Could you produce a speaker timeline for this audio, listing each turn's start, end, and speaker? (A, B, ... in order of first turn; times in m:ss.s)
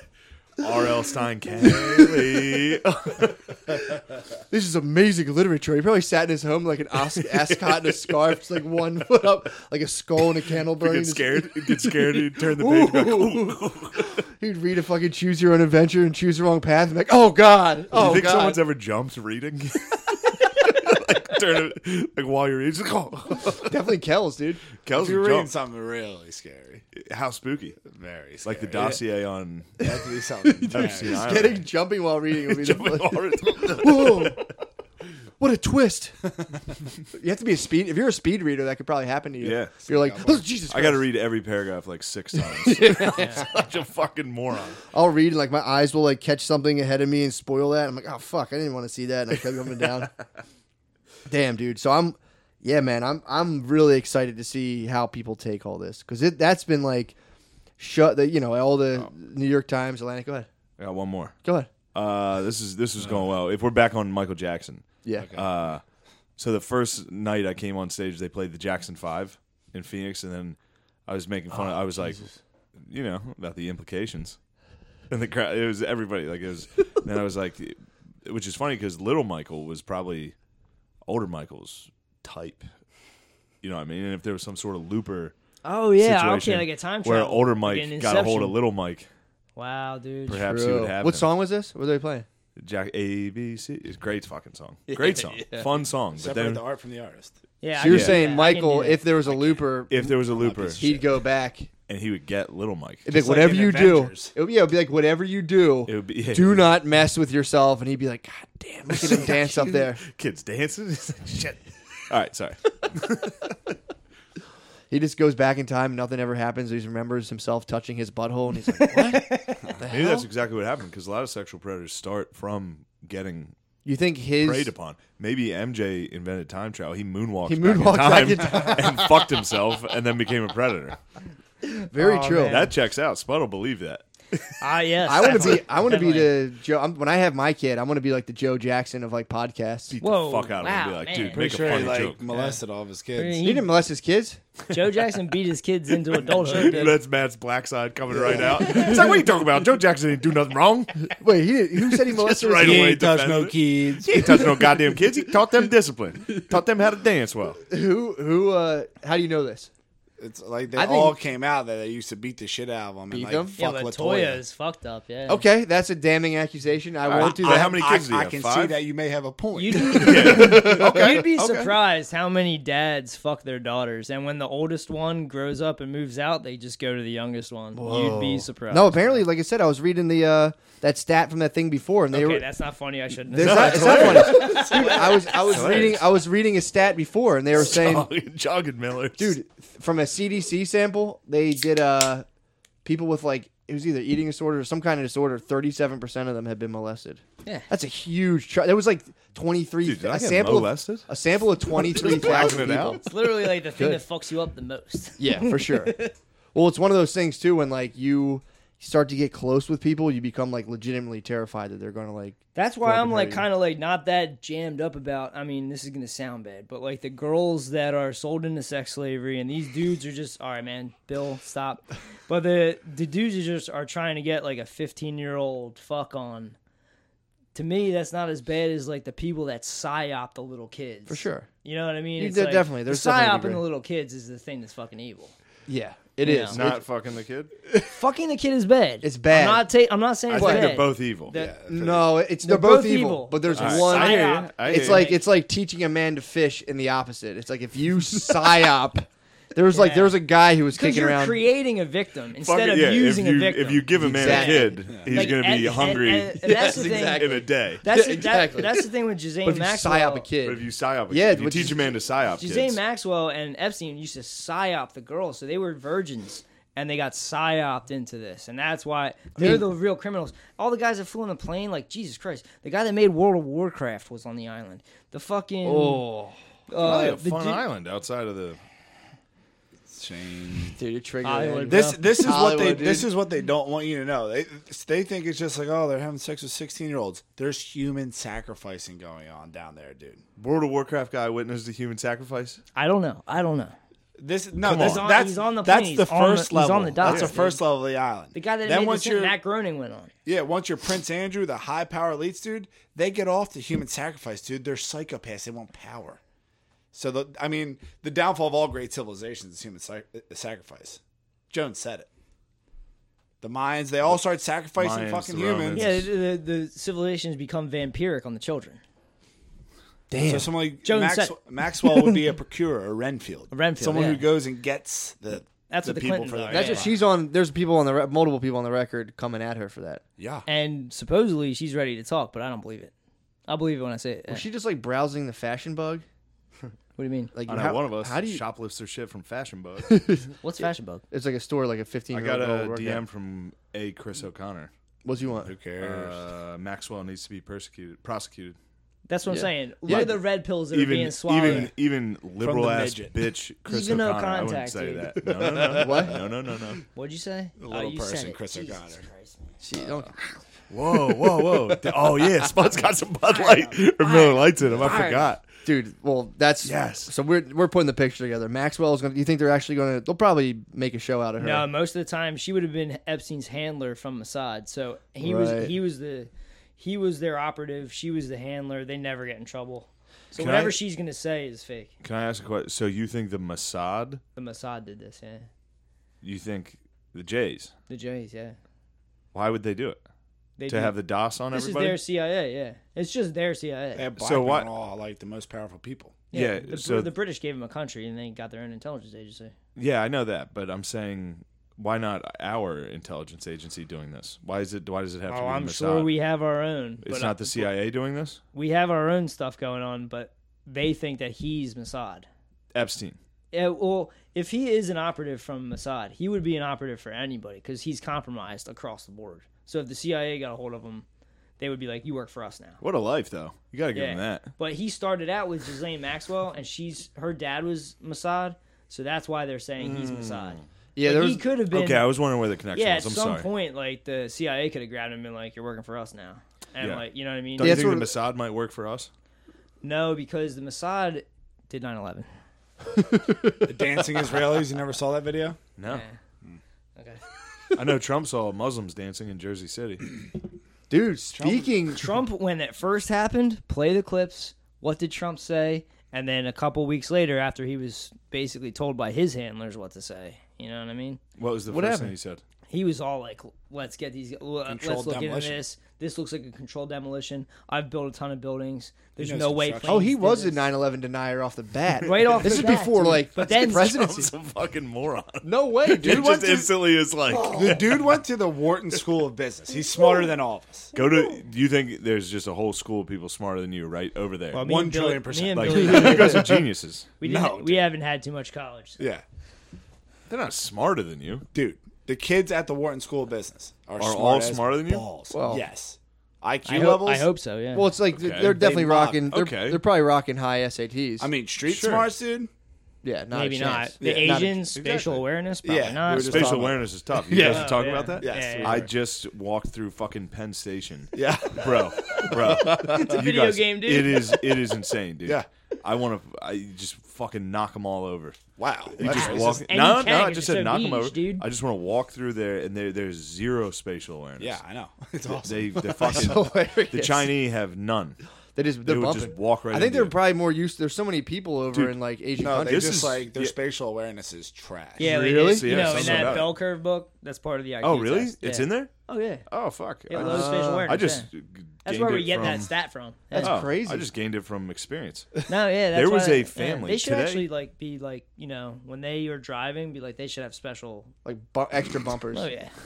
0:00.6-0:04.0 A
0:01.8-0:02.4 B
0:04.5-0:18.6 B
0:07.1-0:08.4 A
0:10.7-0:14.2 A
0:17.9-0:23.7 A
0:23.5-0:24.6 B
0:24.8-0:25.5 A
0:24.9-0:26.8 C
0:27.0-0:27.8 A
0:27.9-0:29.0 C
0:28.4-0:29.8 A
0:29.8-0:31.3 C
0:30.6-0:34.5 B
0:30.7-0:31.7 A
0:32.4-0:34.4 A
0:35.4-0:36.3 B
0:37.1-0:41.1 B
0:39.4-0:39.7 A
0:39.8-0:40.4 C
0:40.7-0:44.8 A
0:42.5-0:43.5 B
0:44.9-0:50.1 B
0:51.3-0:57.2 B
0:57.8-1:00.5 B
1:00.8-1:01.4 A
1:01.4-1:01.7 B
1:01.9-1:05.8 A
1:05.0-1:05.3 B
1:05.2-1:05.5 C
1:06.4-1:14.4 A
1:15.1-1:20.4 A
1:21.1-1:22.7 A
1:23.6-1:25.3 A
1:25.6-1:28.6 D
1:26.0-1:29.1 A
1:29.6-1:30.4 D
1:30.3-1:31.3 A
1:30.4-1:32.3 B
1:32.6-1:36.6 A
1:35.0-1:35.6 B
1:35.0-1:35.4 C
1:36.2-1:37.4 C
1:37.6-1:39.6 D
1:37.8-1:40.2 B
1:37.8-1:38.3 A
1:39.9-1:40.9 A
1:40.3-1:41.1 C
1:40.8-1:41.7 B
1:41.9-1:43.1 A
1:43.0-1:50.0 B
1:43.1-1:44.3 C
1:45.9-1:46.8 A
1:48.9-1:53.6 A
1:54.9-2:00.3 B
1:58.9-1:59.6 D
1:59.8-2:03.6 A
2:03.8-2:04.7 B
2:04.4-2:11.0 A
2:07.4-2:09.1 B
2:11.9-2:12.7 B
2:11.9-2:12.7 D
2:12.4-2:14.4 A
2:14.6-2:16.4 D
2:15.1-2:20.0 B
2:19.9-2:22.2 A
2:20.0-2:22.6 D
2:21.3-2:23.5 C
2:23.2-2:23.7 D
2:23.4-2:24.4 B
2:24.7-2:27.0 D
2:26.2-2:31.2 A
2:28.1-2:29.2 B
2:31.2-2:33.0 B
2:31.8-2:37.6 A
2:32.6-2:34.3 C
2:37.7-2:39.7 B
2:40.2-2:44.4 C
2:40.7-2:41.2 B
2:43.1-2:43.6 B
2:43.6-2:45.4 D
2:45.3-2:47.8 B
2:47.0-2:48.8 A
2:47.1-2:50.0 C
2:49.6-2:59.2 D
2:49.8-2:51.2 B
2:49.8-2:51.8 A
2:57.8-3:02.5 B
3:02.1-3:05.4 D
3:03.3-3:08.1 B
3:03.4-3:04.8 A
3:04.3-3:05.2 C
3:05.5-3:06.0 A
3:07.6-3:09.4 A
3:09.2-3:12.3 B
3:12.8-3:24.0 B
3:17.4-3:17.7 D
3:19.8-3:21.1 A
3:21.7-3:23.0 A
3:23.0-3:26.1 D
3:25.2-3:33.5 B
3:32.6-3:46.6 D
3:47.5-3:55.3 D
3:51.1-3:51.5 B
3:52.2-3:53.6 B
3:55.7-3:56.8 B
3:56.2-3:56.6 D
3:56.5-3:57.5 A
3:57.8-4:01.6 D
3:59.0-3:59.7 B
4:00.3-4:01.3 A
4:00.3-4:00.7 B
4:01.3-4:02.1 C
4:01.7-4:11.4 B
4:02.4-4:05.2 D
4:03.6-4:05.1 A
4:09.7-4:10.2 D
4:10.7-4:20.3 D
4:12.4-4:17.8 A
4:13.9-4:15.3 B
4:16.4-4:18.9 B
4:19.4-4:21.9 B
4:20.4-4:22.8 A
4:22.4-4:36.1 D
4:29.4-4:29.7 B
4:35.6-4:36.4 B
4:36.7-4:37.6 D
4:36.8-4:38.6 A
4:39.9-4:40.8 C
4:40.8-4:43.1 B
4:41.2-4:42.5 D
4:41.7-4:50.2 C
4:50.4-4:52.6 A
4:52.8-4:53.8 D
4:54.2-4:59.4 C
4:54.6-4:55.1 A
4:54.8-4:57.6 D
4:57.0-4:57.3 A
4:58.3-5:00.1 D
5:00.2-5:06.2 C
5:06.9-5:12.1 C
5:13.4-5:15.9 C
5:14.8-5:16.1 A
5:15.7-5:18.8 D
5:20.1-5:20.5 B
5:20.2-5:26.9 C
5:20.8-5:22.2 D
5:23.5-5:24.3 D
5:25.7-5:26.9 D
5:26.5-5:30.0 B
5:30.2-5:30.5 C
5:30.5-5:32.9 D
5:33.5-5:34.5 D
5:34.3-5:36.0 B
5:37.0-5:37.3 D
5:37.3-5:38.4 B
5:37.5-5:40.0 A
5:39.8-5:40.3 B
5:40.4-5:41.0 D
5:41.1-5:43.0 B
5:42.1-5:44.7 A
5:45.0-5:45.5 B
5:45.4-5:46.2 C
5:45.8-5:48.6 A
5:49.1-5:51.7 D
5:49.3-5:50.2 B
5:49.9-5:50.2 A
5:50.7-5:56.8 A
5:52.4-5:53.2 C
5:53.7-5:55.1 D
5:55.3-5:56.0 C
5:55.7-5:56.2 B
5:57.0-5:59.5 D
5:57.6-5:59.1 C
5:59.6-6:00.1 B
6:00.7-6:05.4 A
6:03.3-6:05.4 D
6:04.6-6:05.2 C
6:05.6-6:11.7 B
6:06.6-6:07.1 A
6:11.4-6:21.9 D
6:15.2-6:15.8 B
6:20.3-6:20.8 A
6:22.0-6:24.2 A
6:24.4-6:25.5 D
6:26.2-6:27.7 A
6:27.9-6:28.6 D
6:29.3-6:30.0 A
6:30.6-6:31.0 D
6:30.7-6:32.0 A
6:31.5-6:34.1 D
6:34.0-6:36.2 C
6:34.2-6:34.7 A
6:36.3-6:39.5 D
6:36.3-6:37.1 A
6:39.8-6:46.1 A
6:45.3-6:47.7 D
6:47.0-6:48.4 A
6:48.5-6:52.3 D
6:52.7-6:53.2 A
6:53.5-7:01.0 D
7:01.6-7:02.8 D
7:02.8-7:04.5 A
7:03.9-7:12.1 D
7:09.8-7:10.6 A
7:11.0-7:11.4 B
7:11.7-7:13.5 A
7:12.7-7:17.9 D
7:16.8-7:17.0 A
7:17.6-7:19.1 A
7:17.6-7:18.1 B
7:19.8-7:22.3 D
7:23.0-7:24.0 B
7:23.6-7:25.6 C
7:25.8-7:26.0 A
7:25.9-7:26.2 D
7:27.0-7:27.2 D
7:27.8-7:30.1 A
7:30.9-7:32.1 B
7:31.3-7:31.7 C
7:32.0-7:41.2 D
7:41.4-7:42.4 A
7:41.7-7:42.1 B
7:42.7-7:50.6 D
7:44.7-7:45.6 C
7:49.2-7:50.0 C
7:49.8-7:54.3 B
7:52.0-7:54.0 D
7:53.5-7:58.1 A
7:55.4-7:56.5 B
7:56.0-7:56.7 C
7:57.3-7:57.8 D
7:57.5-8:00.9 C
8:00.9-8:04.6 A
8:04.5-8:06.5 D
8:04.6-8:06.4 C
8:05.5-8:07.1 A
8:07.2-8:09.0 D
8:07.2-8:07.8 C
8:10.3-8:11.4 A
8:11.5-8:17.3 C
8:14.0-8:15.1 A
8:15.3-8:15.6 B
8:16.6-8:18.0 D
8:17.7-8:21.3 B
8:18.1-8:18.6 A
8:18.4-8:19.3 C
8:19.3-8:19.8 A
8:21.2-8:22.5 C
8:21.6-8:22.1 A
8:23.0-8:24.6 B
8:23.3-8:26.6 D
8:24.0-8:24.5 C
8:24.7-8:25.2 A
8:25.6-8:28.9 C
8:26.1-8:38.4 A
8:27.4-8:28.9 D
8:31.1-8:33.2 C
8:32.8-8:34.4 D
8:38.6-8:39.7 C
8:39.0-8:44.6 A
8:39.0-8:41.4 D
8:44.4-8:46.3 C
8:45.4-8:48.2 A
8:46.0-8:47.3 B
8:48.6-8:53.0 B
8:48.8-8:50.2 A
8:51.7-8:52.0 A
8:52.4-8:55.1 C
8:52.6-8:53.6 A
8:55.0-8:59.4 D
8:55.0-8:56.4 B
8:55.1-8:56.6 A
8:57.8-8:58.9 A
8:59.5-9:02.7 A
9:00.1-9:01.3 D
9:00.2-9:01.0 B
9:01.8-9:03.6 D
9:03.3-9:04.1 B
9:03.4-9:05.3 A
9:05.5-9:11.1 D
9:05.9-9:07.5 A
9:11.2-9:12.5 B
9:12.3-9:12.7 D